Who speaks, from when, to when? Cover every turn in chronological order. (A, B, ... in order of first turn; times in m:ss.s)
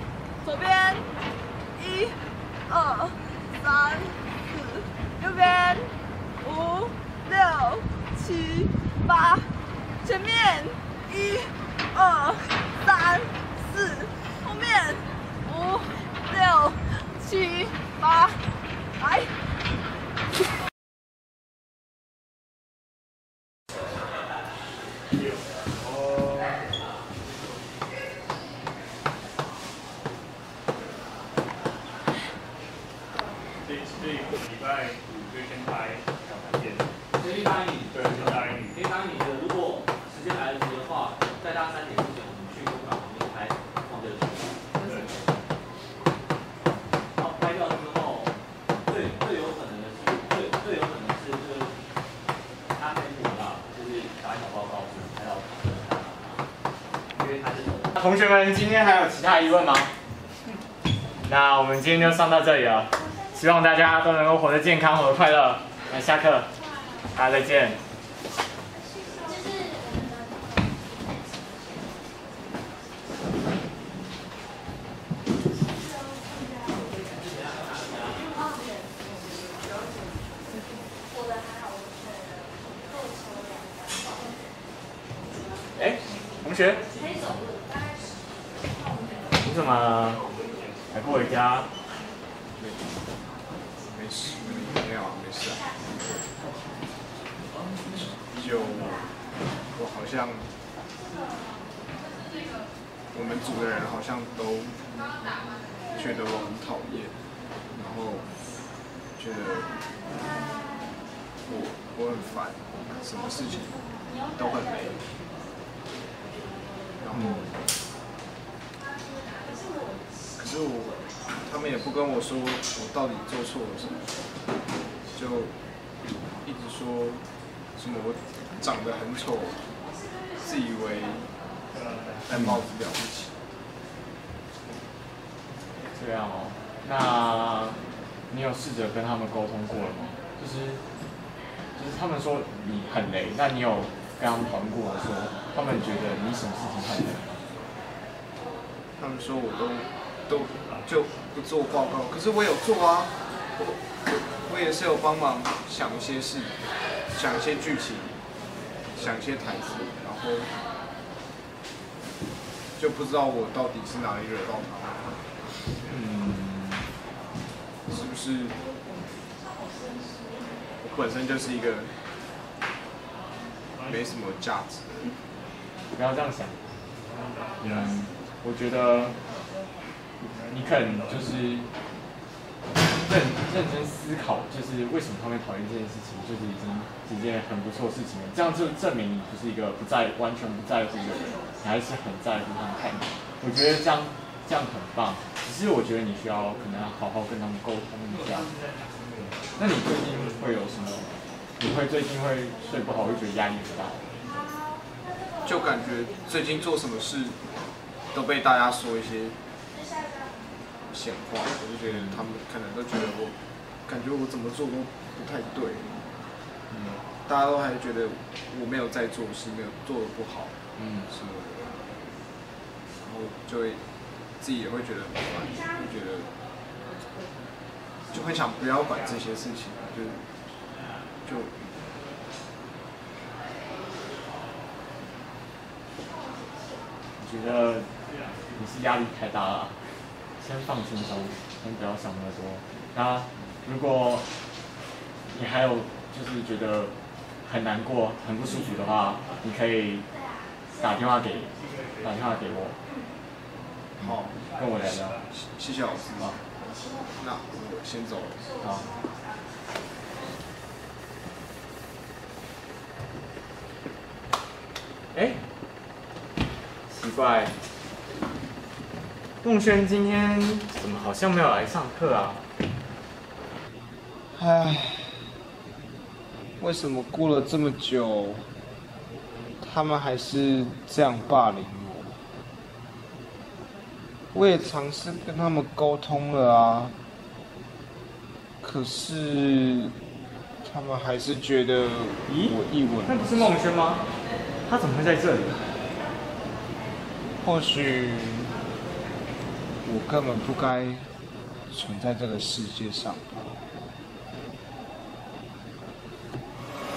0:00.4-0:01.1 A
0:01.8-0:09.5 A
0:10.0-0:19.3 A
0:33.7-0:36.8 B
0:37.2-0:45.4 C
0:38.3-0:38.7 B
0:47.2-0:48.3 C
0:48.8-0:51.8 C
0:52.7-0:56.4 C
0:57.2-0:57.9 C
0:58.0-0:59.9 D
1:01.2-1:06.5 D
1:07.1-1:07.8 D
1:17.1-1:18.2 C
1:25.8-1:26.8 D
1:29.4-1:30.2 D
1:30.9-1:31.7 D
1:32.6-1:32.9 E
1:33.9-1:35.7 E
1:37.9-1:39.1 E
1:39.8-1:40.5 E
1:43.1-1:44.8 E
1:45.9-1:47.1 E
1:47.7-1:48.3 E
1:49.2-1:49.7 E
1:51.4-1:55.0 E
1:57.0-1:57.6 E
1:57.1-1:57.5 D
2:00.4-2:04.0 E
2:05.1-2:05.5 E
2:06.4-2:07.2 E
2:07.8-2:09.6 E
2:10.4-2:11.2 E
2:12.3-2:13.4 E
2:12.3-2:12.7 D
2:16.0-2:20.8 D
2:21.8-2:27.4 D
2:29.0-2:33.6 E
2:34.5-2:36.6 E
2:37.1-2:38.2 E
2:38.9-2:40.5 E
2:42.8-2:45.2 E
2:45.9-2:46.9 D
2:47.9-2:48.6 E
2:50.8-2:52.0 E
2:53.8-2:54.9 E
2:56.0-2:56.6 D
2:57.6-2:59.2 D
3:00.2-3:01.7 D
3:03.0-3:18.5 D
3:19.4-3:24.1 D
3:25.4-3:27.4 E
3:28.1-3:29.4 E
3:30.9-3:35.9 E
3:31.9-3:32.2 D
3:36.7-3:37.0 D
3:37.2-3:40.5 E
3:40.8-3:41.1 D
3:41.1-3:41.7 E
3:43.0-3:43.8 E
3:44.4-3:46.3 E
3:48.1-3:50.2 E
3:51.2-3:51.6 E
3:57.2-3:57.9 D
3:58.6-3:59.8 D
4:00.4-4:04.2 D
4:05.3-4:06.9 D
4:07.4-4:10.1 D
4:10.8-4:12.8 D
4:14.0-4:14.4 E
4:14.5-4:15.2 D
4:15.3-4:16.4 E
4:17.2-4:18.5 E
4:18.6-4:18.9 D
4:25.1-4:25.4 D
4:26.9-4:27.5 D
4:29.4-4:32.4 D
4:34.3-4:35.3 E
4:36.6-4:38.5 E
4:39.6-4:42.2 E
4:44.3-4:47.0 E
4:48.6-4:49.9 E
4:50.6-4:53.5 E
4:52.3-4:54.0 D
4:54.7-4:55.7 D
4:57.4-4:58.6 E
4:59.8-5:01.1 E
5:01.7-5:03.6 E